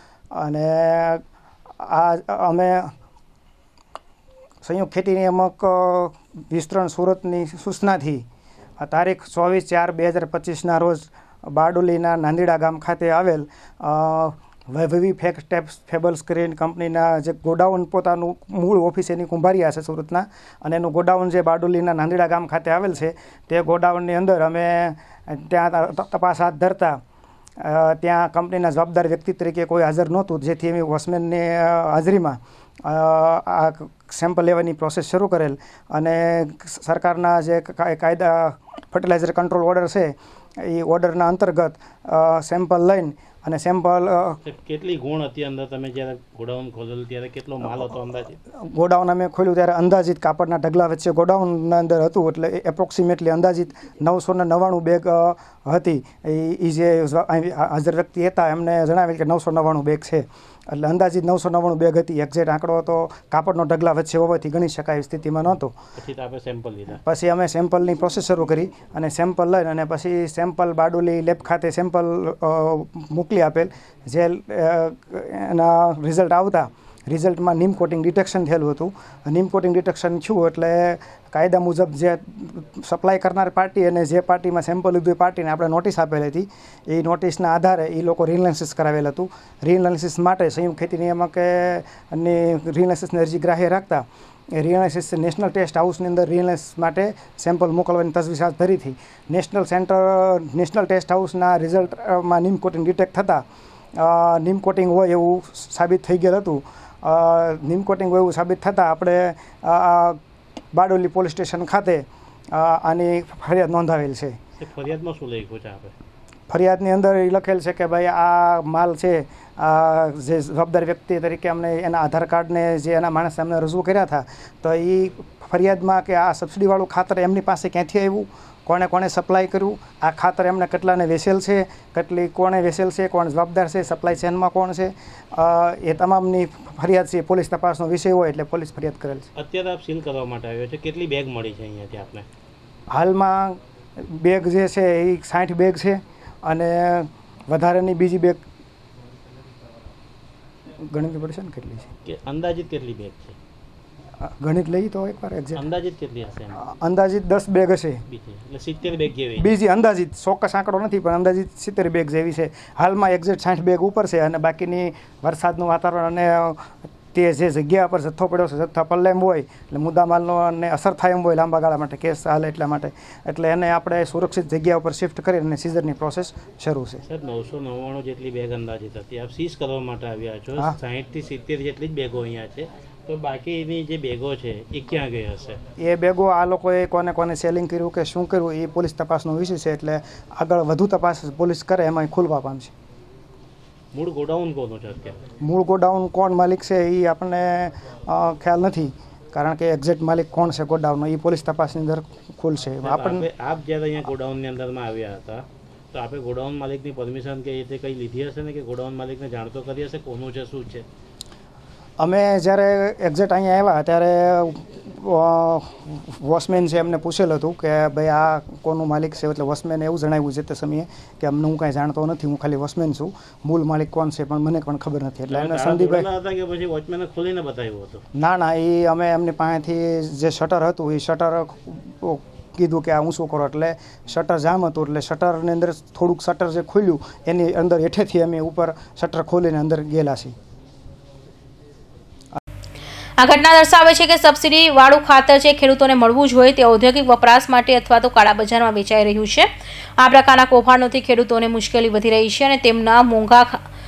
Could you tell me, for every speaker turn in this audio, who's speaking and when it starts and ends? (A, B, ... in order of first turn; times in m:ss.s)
0:00.3-0:01.2 A
0:01.8-0:02.9 A
0:04.6-0:08.2 A
0:08.8-0:27.0 A
0:27.6-0:44.4 A
0:44.4-0:48.4 B
0:48.5-1:05.7 A
1:06.0-1:07.0 B
1:07.0-1:43.4 A
1:43.9-1:50.2 A
1:50.7-1:54.4 A
1:54.6-1:55.9 B
1:56.5-2:19.3 A
2:19.4-2:22.2 B
2:22.9-2:28.4 A
2:30.8-2:31.9 A
2:32.0-2:33.4 B
2:34.2-2:35.6 A
2:35.6-2:36.6 B
2:36.5-2:38.0 A
2:38.1-2:39.5 B
2:39.4-2:57.0 A
2:57.0-3:05.6 B
3:05.8-3:12.7 A
3:13.9-3:15.3 B
3:15.4-3:23.3 A
3:22.8-3:30.9 B
3:32.0-3:46.1 A
3:45.3-3:48.0 B
3:48.1-4:00.3 A
4:03.2-4:13.6 C